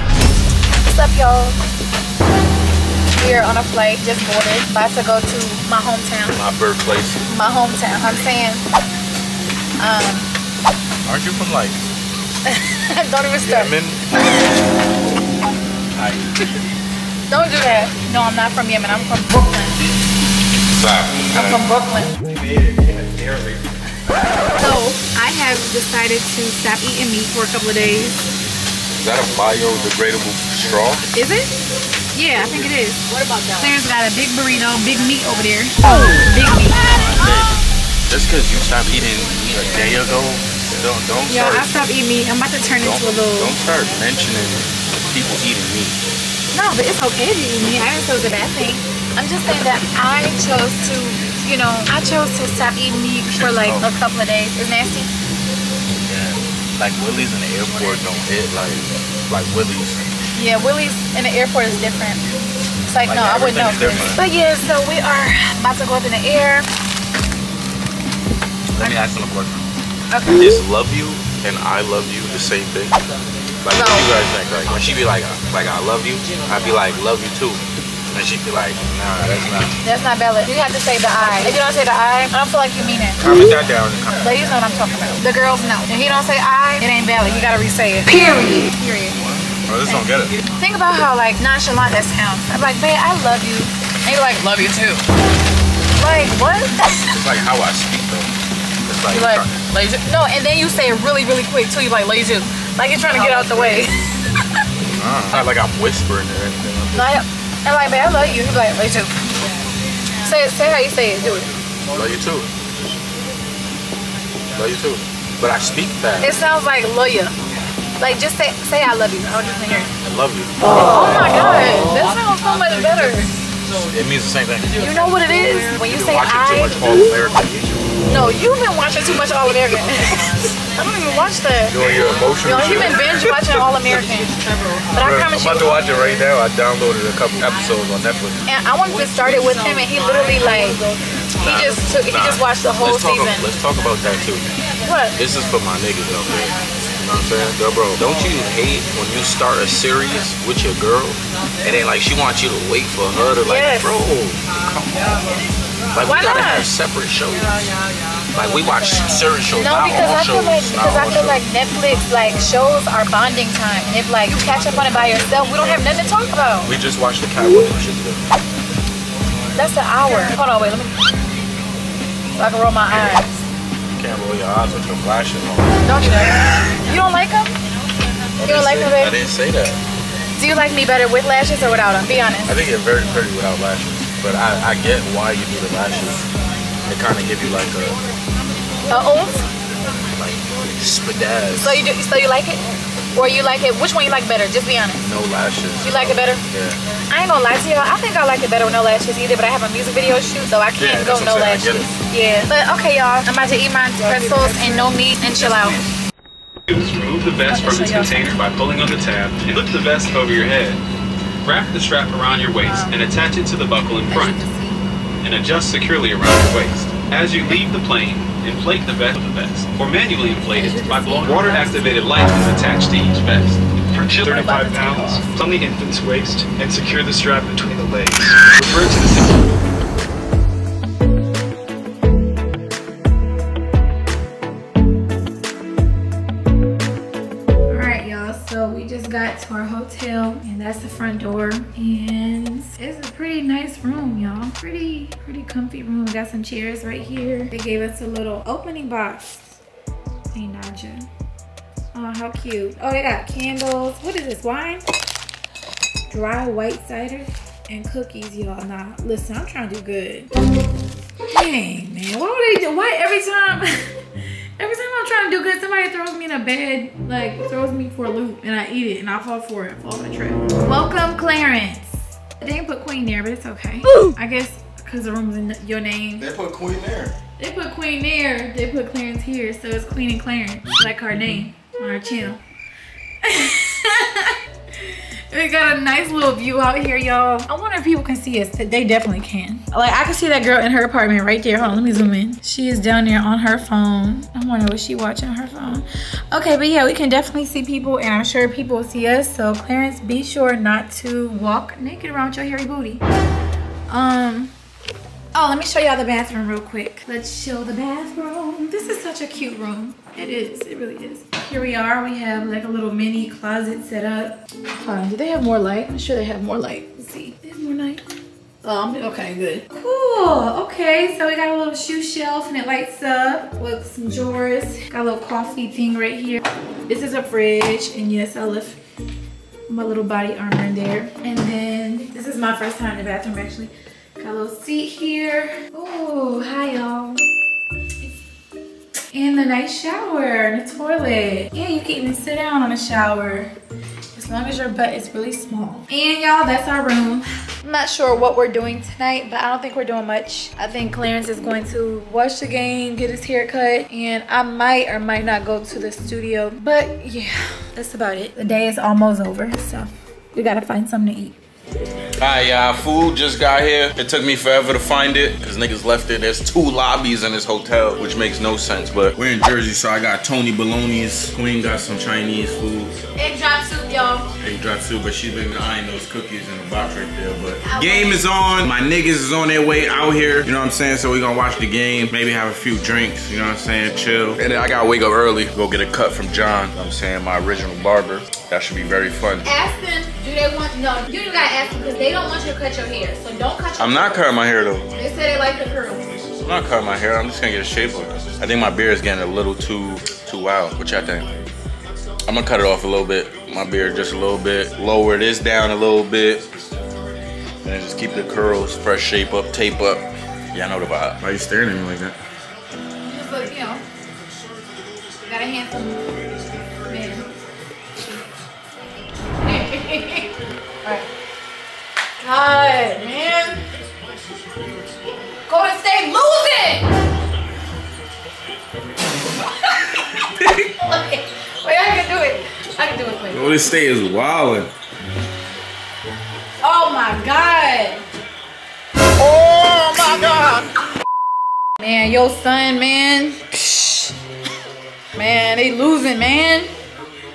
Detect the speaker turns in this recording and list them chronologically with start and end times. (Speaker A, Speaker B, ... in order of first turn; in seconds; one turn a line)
Speaker A: 0.8-1.6
Speaker A: 3.1-6.4
Speaker B: 6.3-7.2
Speaker A: 7.3-8.6
Speaker A: 9.8-10.3
Speaker B: 11.1-11.8
Speaker A: 12.4-13.8
Speaker B: 13.4-14.3
Speaker B: 15.9-16.2
Speaker A: 17.3-19.9
Speaker B: 20.7-21.6
Speaker A: 21.3-22.1
Speaker B: 22.2-24.4
Speaker A: 24.6-28.2
Speaker B: 28.9-31.1
Speaker A: 31.1-31.5
Speaker A: 32.1-36.9
Speaker C: 33.1-33.5
Speaker B: 36.8-41.7
Speaker A: 41.3-43.5
Speaker B: 42.8-46.0
Speaker A: 46.5-55.1
Speaker B: 53.2-53.9
Speaker B: 56.0-60.0
Speaker A: 60.3-62.2
Speaker A: 62.9-66.7
Speaker B: 63.0-64.2
Speaker B: 68.8-69.7
Speaker A: 70.1-70.6
Speaker B: 70.3-73.0
Speaker B: 73.6-77.6
Speaker A: 73.7-74.1
Speaker B: 78.1-79.8
Speaker A: 79.8-83.2
Speaker B: 83.2-84.5
Speaker A: 84.2-89.2
Speaker B: 89.1-90.4
Speaker A: 90.5-95.0
Speaker A: 96.0-97.1
Speaker B: 97.1-98.3
Speaker B: 98.8-99.6
Speaker A: 99.1-104.5
Speaker B: 105.0-107.2
Speaker A: 106.9-109.1
Speaker A: 110.2-111.5
Speaker B: 111.9-112.5
Speaker B: 114.5-116.3
Speaker A: 116.2-117.3
Speaker A: 118.0-119.9
Speaker B: 120.0-120.6
Speaker A: 120.7-123.4
Speaker B: 123.9-124.9
Speaker A: 124.8-127.1
Speaker B: 125.8-127.8
Speaker A: 128.1-131.8
Speaker B: 131.7-133.8
Speaker A: 132.4-134.3
Speaker A: 134.9-136.0
Speaker B: 135.0-138.5
Speaker A: 138.4-140.8
Speaker A: 141.4-143.5
Speaker B: 141.4-144.5
Speaker A: 144.8-145.2
Speaker B: 145.1-155.3
Speaker A: 153.4-153.9
Speaker B: 155.9-157.7
Speaker A: 156.0-156.7
Speaker B: 158.3-161.4
Speaker A: 159.5-166.7
Speaker B: 165.5-165.9
Speaker B: 166.6-168.2
Speaker A: 169.5-170.9
Speaker A: 172.3-173.3
Speaker B: 172.9-173.2
Speaker B: 173.9-176.7
Speaker A: 175.8-177.6
Speaker B: 178.4-179.8
Speaker A: 178.4-179.2
Speaker A: 180.3-182.6
Speaker B: 182.4-186.3
Speaker B: 186.8-188.0
Speaker A: 188.9-189.5
Speaker B: 190.1-191.8
Speaker A: 191.5-195.0
Speaker B: 195.0-196.8
Speaker A: 195.8-196.4
Speaker A: 197.1-205.8
Speaker B: 200.8-201.9
Speaker C: 206.7-210.8
Speaker A: 207.5-208.3
Speaker C: 211.4-214.4
Speaker A: 212.6-213.0
Speaker A: 214.1-214.8
Speaker C: 215.2-229.4
Speaker A: 220.4-222.3
Speaker A: 224.2-225.3
Speaker A: 237.7-249.6
Speaker A: 250.3-251.1
Speaker A: 251.9-254.8
Speaker A: 256.1-260.3
Speaker A: 261.3-263.8
Speaker A: 264.6-276.3
Speaker B: 276.2-277.2
Speaker A: 277.4-282.4
Speaker A: 283.2-303.0
Speaker A: 303.9-304.5
Speaker A: 305.3-318.0
Speaker A: 318.6-328.8
Speaker A: 329.7-337.2
Speaker A: 339.1-343.5
Speaker A: 344.1-361.4
Speaker B: 362.2-373.0
Speaker A: 373.1-374.3
Speaker B: 374.4-389.5
Speaker A: 377.6-378.3
Speaker A: 389.4-394.2
Speaker B: 393.8-394.9
Speaker A: 394.9-396.1
Speaker B: 396.4-401.3
Speaker B: 402.2-406.5
Speaker B: 407.6-412.2
Speaker A: 413.0-413.8
Speaker A: 415.2-417.3
Speaker A: 419.4-420.3
Speaker A: 422.2-423.7
Speaker A: 425.4-426.9
Speaker A: 429.7-433.5
Speaker B: 433.3-434.7
Speaker A: 436.6-438.0
Speaker A: 439.2-440.7
Speaker A: 441.8-444.1
Speaker A: 445.1-446.7